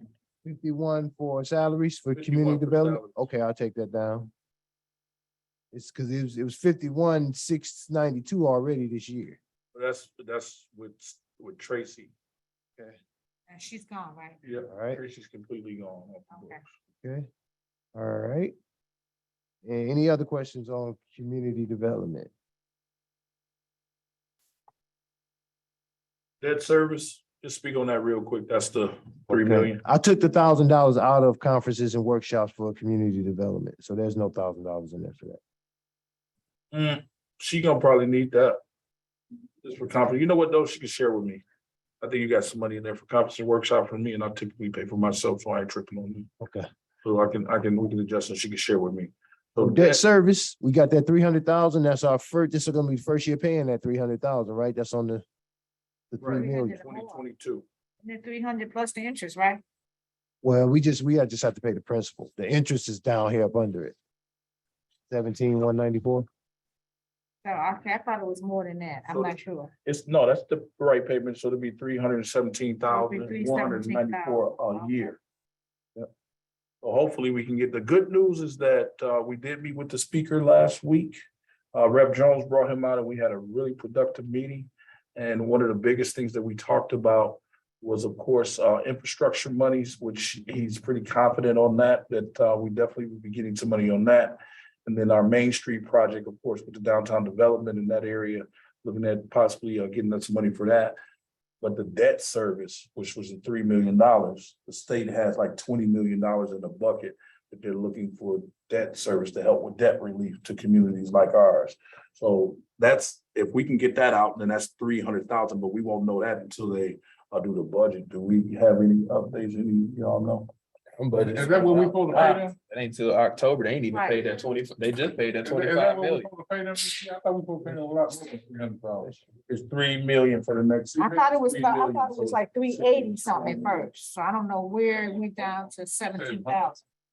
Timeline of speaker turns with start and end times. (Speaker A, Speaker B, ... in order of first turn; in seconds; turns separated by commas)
Speaker A: 0.4-4.3, Speaker B: 2.1-3.3, Speaker A: 5.7-9.4, Speaker B: 9.7-12.1, Speaker C: 13.5-14.4, Speaker B: 14.4-16.7, Speaker A: 14.7-15.0, Speaker C: 16.3-16.6, Speaker A: 17.0-17.3, Speaker A: 17.9-18.5, Speaker A: 19.6-22.3, Speaker B: 26.4-29.8, Speaker A: 29.3-35.4, Speaker B: 36.7-38.6, Speaker B: 39.6-41.4, Speaker B: 42.0-46.3, Speaker A: 46.4-46.7, Speaker B: 47.0-50.0, Speaker A: 49.6-55.2, Speaker A: 56.1-56.8, Speaker B: 56.2-57.6, Speaker C: 56.4-57.2, Speaker C: 58.0-59.6, Speaker A: 60.4-64.0, Speaker A: 65.1-66.3, Speaker C: 67.4-69.7, Speaker B: 69.1-75.2, Speaker C: 72.9-74.4, Speaker B: 76.8-81.2, Speaker B: 81.7-101.0, Speaker B: 101.6-120.5, Speaker D: 121.0-126.3, Speaker E: 121.1-122.5, Speaker C: 123.9-124.3, Speaker E: 125.4-129.2, Speaker B: 129.5-133.8, Speaker C: 131.0-136.8, Speaker E: 136.1-136.7